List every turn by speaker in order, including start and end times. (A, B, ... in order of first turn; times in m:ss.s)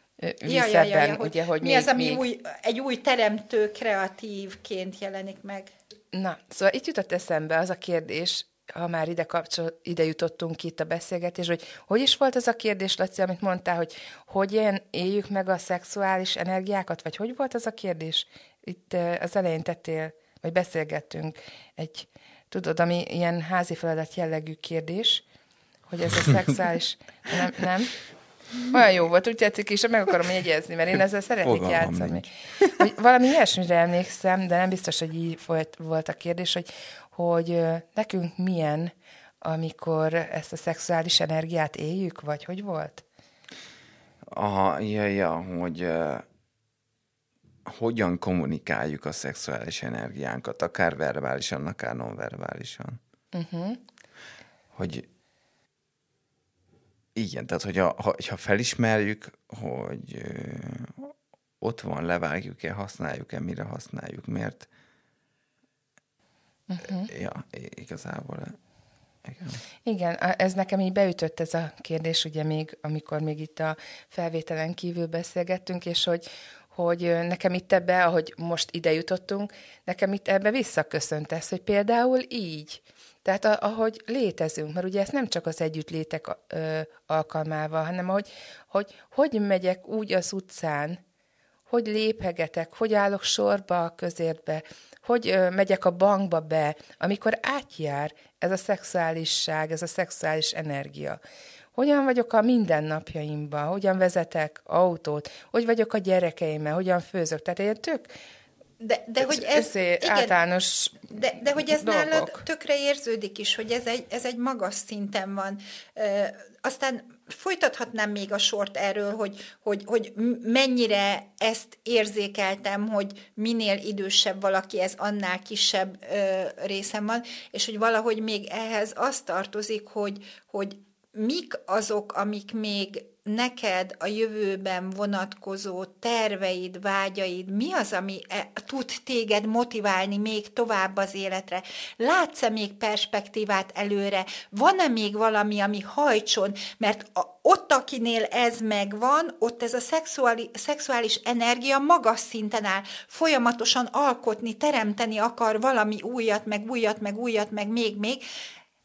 0:00.2-0:02.2 A
0:00.4-0:05.7 B
0:06.1-0:25.2 A
0:25.9-0:28.0 A
0:28.7-0:32.3 A
0:31.4-0:32.7 C
0:32.8-0:38.9 A
0:39.4-0:43.0 A
0:44.3-0:46.2 C
0:47.7-0:53.0 C
0:53.3-0:53.8 A
0:54.7-0:55.1 C
0:57.2-1:04.7 C
1:06.7-1:07.1 A
1:07.1-1:08.6 C
1:09.2-1:09.6 C
1:09.8-1:31.0 A
1:31.7-1:41.2 A
1:41.8-1:48.1 A
1:48.8-1:50.4 B
1:49.2-1:52.4 A
1:51.1-2:38.2 B